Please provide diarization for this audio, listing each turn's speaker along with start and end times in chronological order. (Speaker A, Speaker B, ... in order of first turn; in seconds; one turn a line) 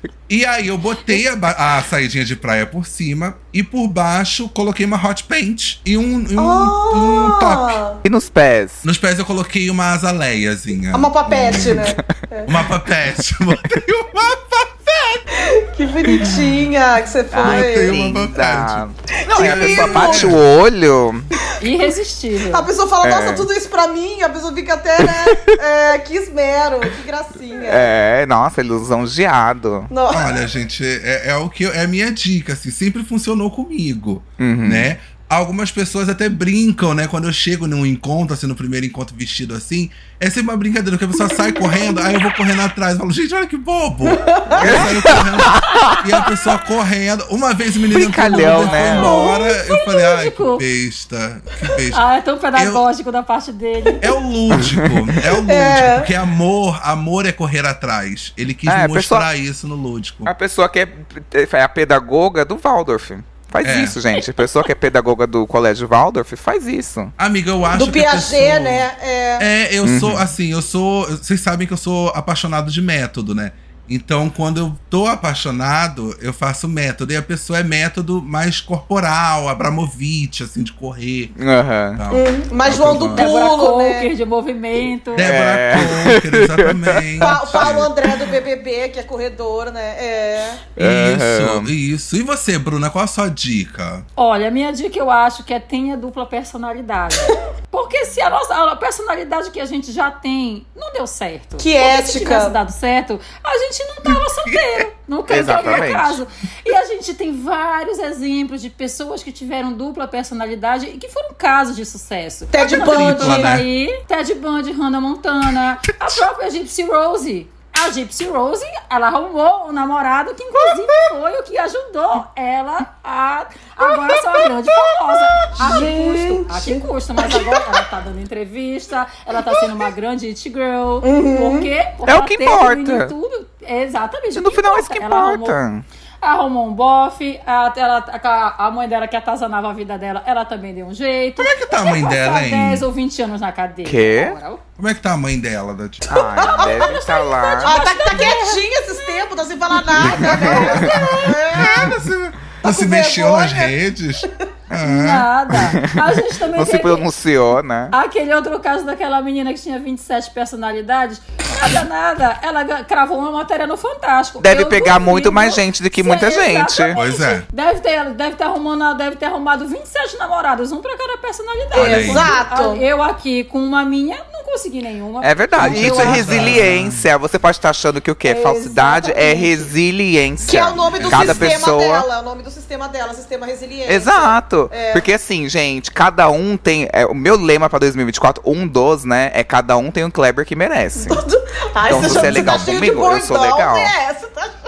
Speaker A: 0.3-7.8
Speaker B: 6.4-8.0
Speaker C: 8.0-8.8
Speaker A: 8.8-15.2
Speaker B: 10.9-12.5
Speaker C: 11.5-12.1
Speaker B: 15.3-17.9
Speaker C: 17.3-21.3
Speaker A: 17.4-18.8
Speaker B: 19.2-20.4
Speaker A: 19.4-20.4
Speaker D: 21.6-22.7
Speaker B: 22.5-27.9
Speaker C: 23.0-23.5
Speaker C: 25.0-25.6
Speaker C: 27.6-29.9
Speaker B: 29.9-30.3
Speaker A: 30.1-52.0
Speaker C: 34.4-34.9
Speaker B: 44.0-44.9
Speaker C: 44.6-46.0
Speaker C: 47.9-49.1
Speaker B: 48.8-49.5
Speaker D: 48.9-50.6
Speaker D: 51.9-54.0
Speaker A: 52.5-52.8
Speaker A: 54.0-60.3
Speaker C: 54.5-55.0
Speaker B: 55.3-56.1
Speaker C: 58.7-59.2
Speaker C: 60.2-67.1
Speaker A: 63.6-64.0
Speaker A: 67.2-68.9
Speaker B: 67.7-69.5
Speaker A: 69.4-81.3
Speaker C: 69.8-70.3
Speaker C: 81.3-82.0
Speaker A: 82.0-83.3
Speaker B: 82.1-84.1
Speaker D: 83.1-85.3
Speaker A: 85.1-87.9
Speaker C: 85.2-87.8
Speaker B: 87.2-90.7
Speaker C: 90.8-91.7
Speaker A: 90.8-94.0
Speaker D: 94.2-135.6
Speaker B: 101.6-102.5
Speaker A: 104.0-104.9
Speaker C: 105.3-106.2
Speaker B: 112.5-113.5
Speaker A: 112.7-113.7
Speaker A: 120.6-121.1
Speaker A: 123.8-125.5
Speaker B: 125.6-127.6
Speaker B: 131.0-131.7
Speaker C: 132.1-133.1
Speaker C: 134.3-135.8
Speaker D: 136.2-144.6
Speaker A: 141.4-142.8
Speaker C: 143.8-144.3
Speaker A: 144.8-146.2
Speaker C: 146.1-147.8
Speaker D: 146.1-149.2
Speaker B: 146.4-146.8
Speaker B: 147.6-151.9
Speaker D: 150.0-151.4
Speaker C: 150.0-150.9
Speaker A: 150.1-155.3
Speaker B: 152.6-154.3
Speaker D: 154.8-157.1
Speaker C: 155.5-157.9
Speaker D: 157.9-176.7
Speaker C: 164.4-167.0
Speaker A: 166.9-167.5
Speaker A: 171.7-172.4
Speaker B: 171.7-172.8
Speaker C: 175.2-182.1
Speaker A: 175.6-177.1
Speaker D: 178.2-179.7
Speaker B: 180.4-185.1
Speaker A: 180.9-181.7
Speaker C: 183.8-191.2
Speaker B: 191.0-194.6
Speaker C: 191.9-193.9
Speaker A: 191.9-192.7